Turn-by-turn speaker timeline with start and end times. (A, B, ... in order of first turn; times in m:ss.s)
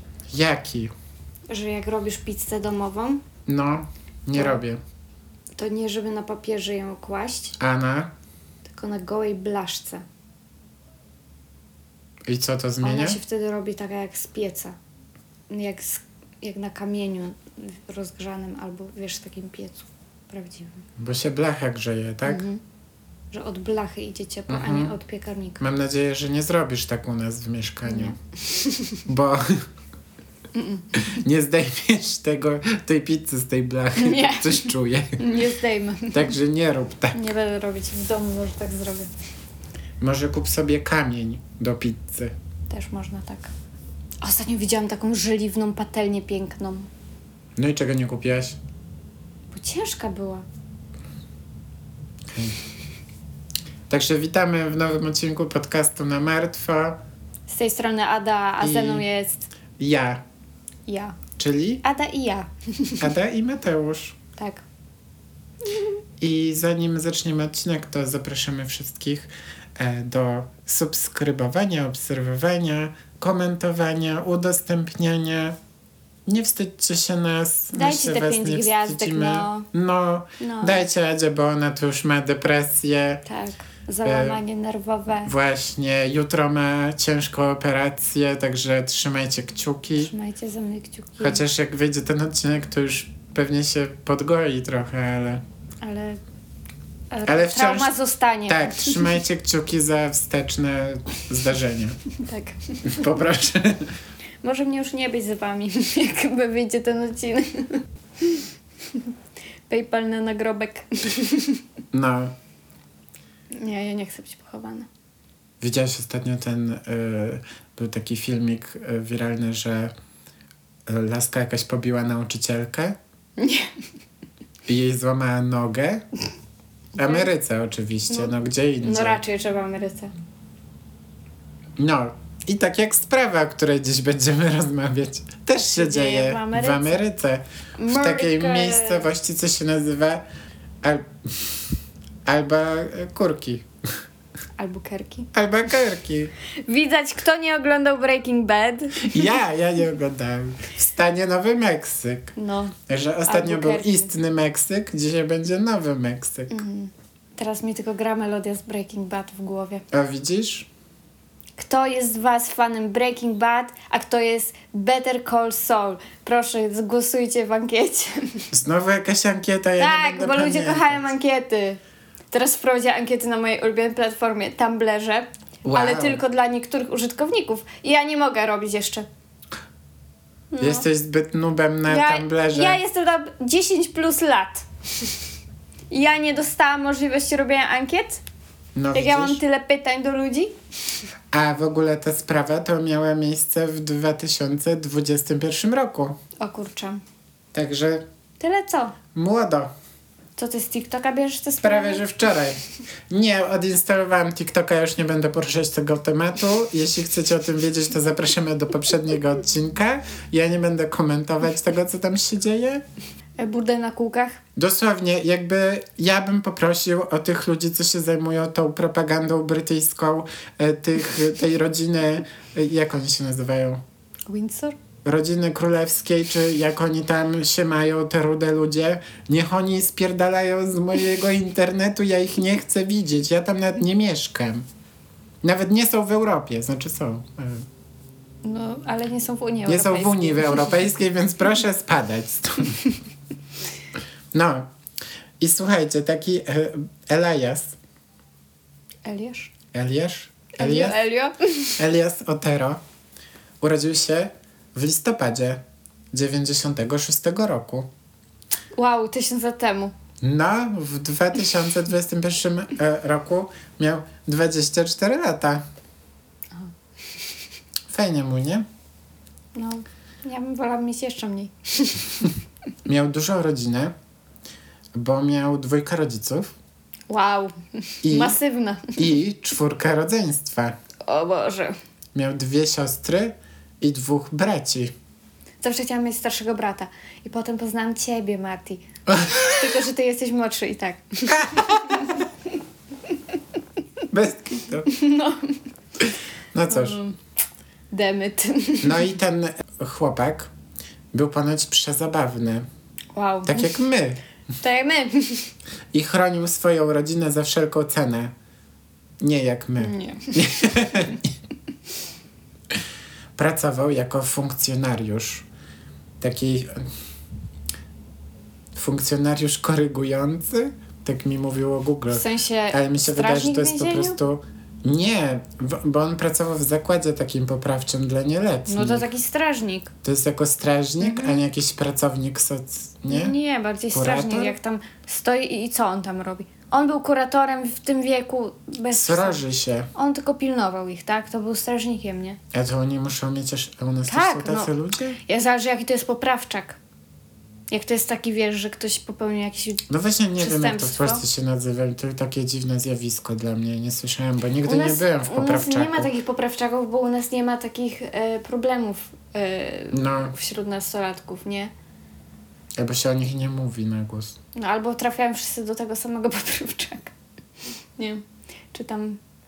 0:00.3-0:00.9 A
0:01.5-0:03.2 B
0:03.5-0:04.8 A
0:04.3-0:04.6 B
0:05.6-0:07.6 B
0:07.6-0:08.1 A
0:08.7-0:10.0 B
0:12.3-0:13.2 A
0:12.8-0:14.8 B
0:15.5-0:20.8 B
0:21.0-0:22.4 A
0:22.3-0:22.6 B
0:23.3-0:25.6 B
0:24.5-0:25.0 A
0:25.6-0:28.2 A
0:27.9-0:29.0 B
0:29.1-0:29.6 A
0:30.6-0:31.2 B
0:31.0-0:35.2 A
0:34.0-0:36.3 B
0:36.1-0:37.3 A
0:37.1-0:39.1 B
0:40.0-0:42.4 A
0:42.7-0:43.5 B
0:44.2-0:46.9 B
0:47.6-0:48.6 A
0:49.5-0:50.5 B
0:52.3-0:52.6 A
0:53.9-0:57.0 A
0:57.5-0:59.5 B
0:58.6-0:59.1 A
0:59.8-1:00.2 A
1:00.9-1:01.2 B
1:01.4-1:01.8 A
1:01.8-1:03.1 B
1:03.0-1:04.2 A
1:04.4-1:04.6 B
1:06.2-1:15.6 A
1:16.3-1:23.2 A
1:17.7-1:19.7 B
1:20.4-1:20.8 B
1:23.3-1:25.3 B
1:24.0-1:24.4 A
1:25.3-1:30.1 A
1:30.0-1:31.4 B
1:31.2-1:35.4 A
1:35.8-1:36.2 B
1:37.1-1:39.1 B
1:37.3-1:38.0 A
1:38.5-1:42.0 A
1:42.2-1:43.0 B
1:42.8-1:43.9 A
1:44.4-1:49.1 B
1:49.7-1:51.6 B
1:51.9-1:52.3 A
1:53.5-1:54.9 B
1:55.6-1:59.9 A
2:00.9-2:03.0 A
2:03.4-2:03.7 B
2:04.7-2:06.0 A
2:07.0-2:07.3 B
2:07.0-2:09.2 A
2:08.1-2:10.1 B
2:11.8-2:20.2 A
2:15.6-2:17.0 B
2:17.8-2:19.1 B
2:20.8-2:21.7 A
2:22.2-2:23.7 A
2:24.6-2:25.3 B
2:25.3-2:26.3 A
2:26.7-2:29.3 B
2:29.0-2:32.3 A
2:32.4-2:34.1 B
2:32.9-2:36.6 A
2:36.5-2:39.8 B
2:39.9-2:40.7 A
2:41.6-2:48.5 B
2:48.5-2:51.1 A
2:49.8-2:51.8 B
2:52.3-2:59.1 B
2:55.6-2:56.2 A
3:00.5-3:00.9 B
3:00.6-3:02.8 A
3:01.9-3:05.1 B
3:05.9-3:08.2 B
3:08.8-3:09.4 A
3:08.9-3:10.5 B
3:11.3-3:16.2 A
3:16.4-3:17.0 B
3:17.5-3:18.0 A
3:18.4-3:19.0 B
3:19.2-3:19.7 A
3:20.4-3:22.1 B
3:21.6-3:32.8 A
3:33.4-3:34.4 B
3:34.6-3:43.8 A
3:44.3-3:44.8 B
3:45.0-3:54.7 A
3:55.4-3:57.7 A
3:58.4-4:00.7 B
3:59.7-4:02.8 A
4:04.3-4:04.7 A
4:05.4-4:07.8 A
4:09.0-4:09.5 B
4:09.7-4:11.0 A
4:10.6-4:11.8 B
4:11.8-4:12.8 A
4:13.6-4:15.6 A
4:16.1-4:17.9 A
4:18.8-4:19.9 B
4:20.2-4:25.6 A
4:27.9-4:28.7 A
4:29.6-4:32.4 B
4:32.8-4:33.9 A
4:34.9-4:36.5 A
4:37.1-4:39.1 B
4:38.0-4:38.4 A
4:39.0-4:40.8 A
4:41.0-4:41.8 B
4:42.1-4:44.9 A
4:45.6-4:52.3 B
4:49.1-4:49.7 A
4:51.3-4:52.1 A
4:54.1-4:54.9 A
4:54.9-4:55.6 B
4:56.5-4:57.0 A
4:56.7-4:57.2 B
4:57.9-4:59.1 B
4:58.8-5:00.5 A
5:01.1-5:02.7 A
5:03.2-5:03.8 B
5:03.5-5:04.2 A
5:04.6-5:05.5 B
5:05.9-5:08.3 A
5:09.2-5:11.3 A
5:09.8-5:11.1 B
5:13.4-5:15.5 A
5:16.2-5:16.9 A
5:18.7-5:29.1 A
5:22.1-5:24.2 B
5:28.7-5:29.9 B
5:30.0-5:33.4 A
5:31.0-5:31.3 B
5:33.1-5:39.4 B
5:33.9-5:34.6 A
5:38.9-5:39.9 A
5:40.0-5:42.4 B
5:42.5-5:45.2 A
5:44.1-5:44.7 B
5:45.2-5:46.8 B
5:47.7-5:49.8 B
5:49.9-5:56.1 A
5:50.4-5:51.2 B
5:54.7-6:01.7 B
5:59.9-6:00.3 A
6:02.8-6:04.4 A
6:04.6-6:07.1 B
6:08.0-6:09.2 B